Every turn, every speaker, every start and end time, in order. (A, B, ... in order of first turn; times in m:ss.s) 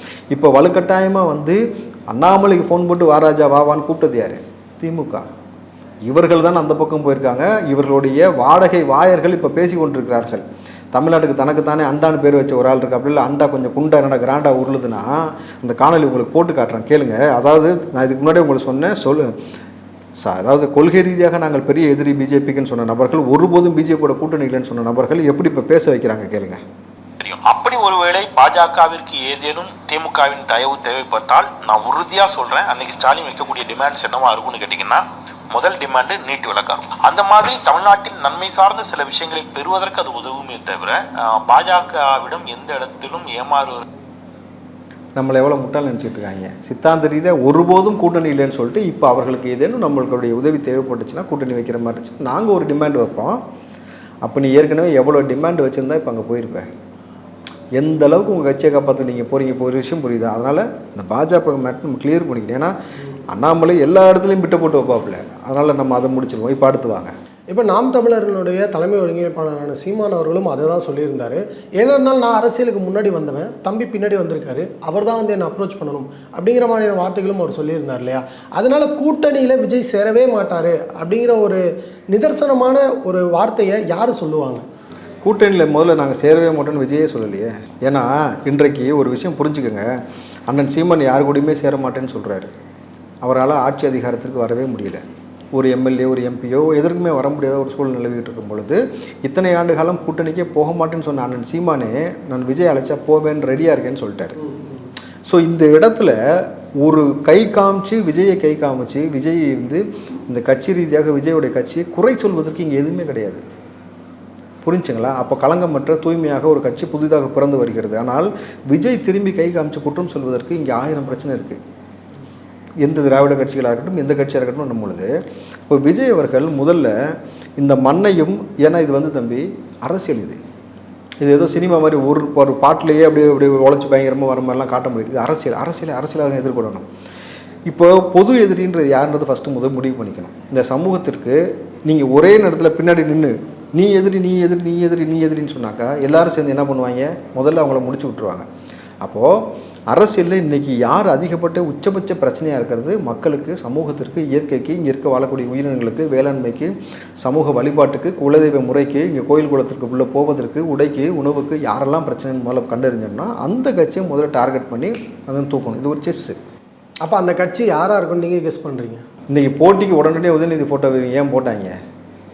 0:00.3-0:05.3 A
0:06.1-0:19.4 A
0:20.2-0:26.6 A
0:27.2-0:43.8 B
0:45.2-0:53.4 A
0:54.2-0:56.7 A
0:57.8-1:02.7 A
1:03.3-1:07.1 A
1:07.5-1:24.6 C
1:25.2-1:32.5 A
1:33.2-1:35.0 A
1:35.5-1:44.5 A
1:45.3-1:53.4 A
1:54.6-2:01.6 A
2:02.8-2:10.4 A
2:11.2-2:16.9 A
2:17.7-2:28.5 A
2:29.0-2:46.4 A
2:47.0-2:49.0 C
2:49.3-2:51.8 A